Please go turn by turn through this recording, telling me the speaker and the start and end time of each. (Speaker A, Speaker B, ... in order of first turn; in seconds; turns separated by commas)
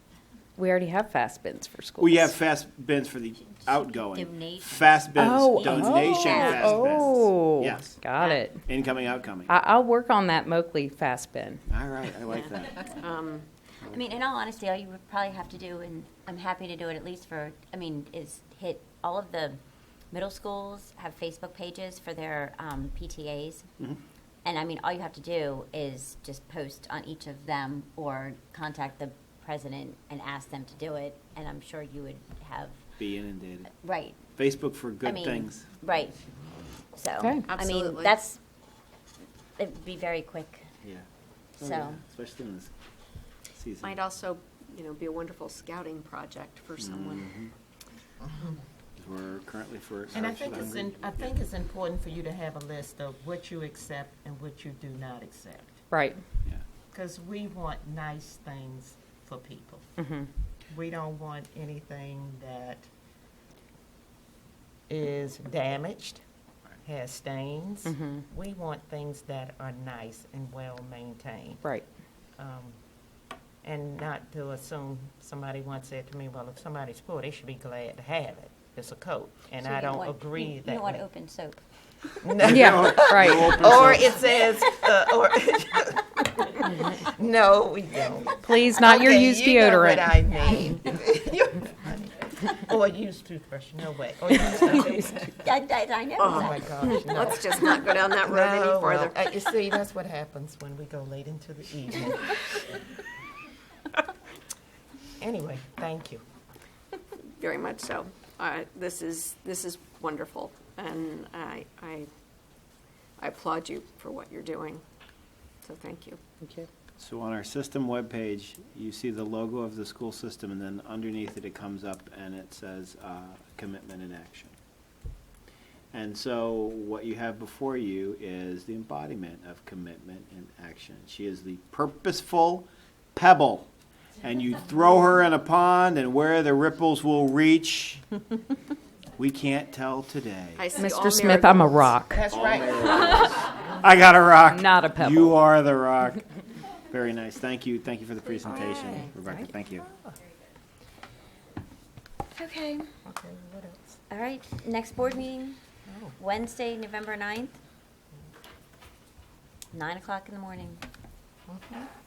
Speaker A: 0.6-2.3, Speaker B: 2.0-7.9, Speaker C: 4.1-6.9, Speaker A: 5.2-8.7, Speaker B: 8.6-9.5, Speaker A: 9.5-11.6, Speaker B: 11.7-13.0, Speaker D: 12.8-13.4, Speaker C: 13.9-19.6, Speaker C: 20.1-23.7, Speaker C: 24.4-32.8, Speaker B: 33.0-33.7, Speaker C: 33.8-34.2, Speaker B: 34.4-35.6, Speaker C: 35.0-36.2, Speaker C: 36.9-38.4, Speaker A: 37.2-37.5, Speaker D: 37.5-38.2, Speaker C: 39.6-40.7, Speaker C: 41.6-42.0, Speaker B: 41.6-42.7, Speaker B: 43.5-44.0, Speaker D: 43.8-47.4, Speaker B: 46.8-47.5, Speaker B: 49.0-51.3, Speaker E: 50.1-55.8, Speaker A: 55.9-56.2, Speaker E: 56.9-59.9, Speaker A: 60.0-60.3, Speaker E: 60.7-62.9, Speaker E: 64.9-66.2, Speaker E: 66.8-71.6, Speaker A: 67.9-68.2, Speaker E: 72.4-72.8, Speaker E: 73.6-81.0, Speaker C: 79.6-81.6, Speaker E: 82.2-95.4, Speaker B: 82.4-84.2, Speaker A: 82.5-83.5, Speaker A: 88.4-90.4, Speaker C: 95.4-97.0, Speaker D: 96.2-99.2, Speaker E: 96.3-102.6, Speaker E: 105.2-106.2, Speaker D: 107.4-112.1, Speaker D: 113.2-114.8, Speaker D: 115.6-116.2, Speaker A: 116.4-116.7, Speaker B: 117.0-124.5, Speaker B: 125.9-133.7, Speaker B: 134.2-138.0, Speaker B: 139.2-140.7, Speaker D: 140.6-141.9, Speaker A: 140.7-142.2, Speaker E: 142.1-143.6, Speaker B: 142.3-146.2, Speaker A: 144.5-145.4, Speaker B: 146.9-149.8, Speaker D: 148.4-149.1, Speaker E: 149.2-150.1, Speaker C: 152.3-152.9, Speaker E: 153.0-154.0, Speaker C: 154.1-155.6, Speaker E: 155.9-156.2, Speaker C: 156.2-157.6, Speaker C: 159.7-160.8, Speaker E: 161.5-161.9